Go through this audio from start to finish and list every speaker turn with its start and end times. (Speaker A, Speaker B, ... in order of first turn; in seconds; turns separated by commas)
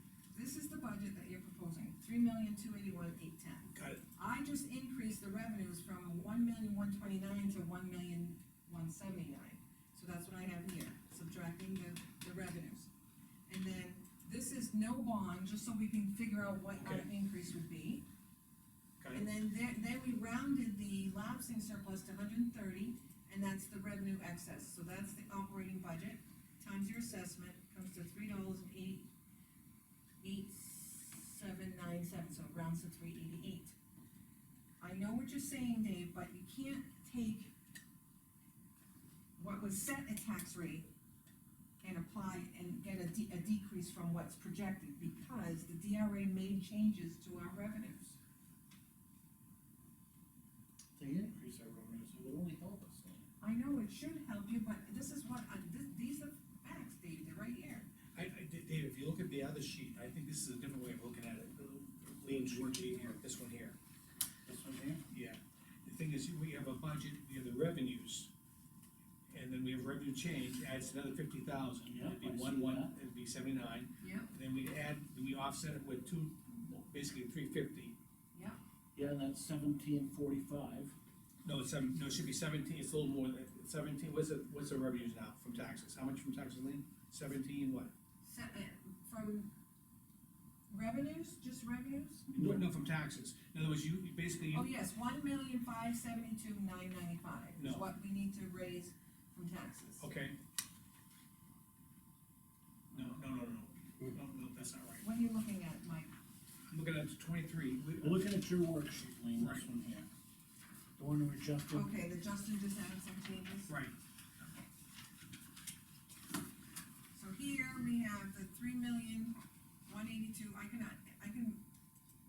Speaker A: 0.3-12.9, Speaker B: 3.7-4.0, Speaker A: 13.5-18.1, Speaker B: 16.8-17.1, Speaker B: 19.0-19.2, Speaker A: 19.1-29.1, Speaker A: 30.2-33.8, Speaker A: 34.8-37.5, Speaker A: 39.4-40.9, Speaker A: 41.8-48.2, Speaker C: 51.0-53.2, Speaker A: 53.4-57.9, Speaker B: 58.1-63.8, Speaker C: 62.3-63.2, Speaker C: 64.5-65.0, Speaker B: 65.1-68.3, Speaker B: 69.3-78.0, Speaker C: 71.8-72.9, Speaker A: 74.0-74.3, Speaker A: 78.3-78.6, Speaker C: 78.9-81.0, Speaker B: 81.4-87.9, Speaker A: 88.2-89.5, Speaker A: 90.7-92.3, Speaker C: 92.3-92.7, Speaker B: 92.3-94.7, Speaker A: 94.5-100.1, Speaker B: 97.5-97.8, Speaker B: 100.0-100.4, Speaker B: 102.9-105.0, Speaker A: 105.0-106.1, Speaker B: 106.7-108.3, Speaker C: 108.0-110.1, Speaker B: 109.4-109.6, Speaker C: 111.0-111.9, Speaker A: 111.7-113.8, Speaker B: 113.7-113.9, Speaker A: 114.4-114.7, Speaker A: 117.1-121.6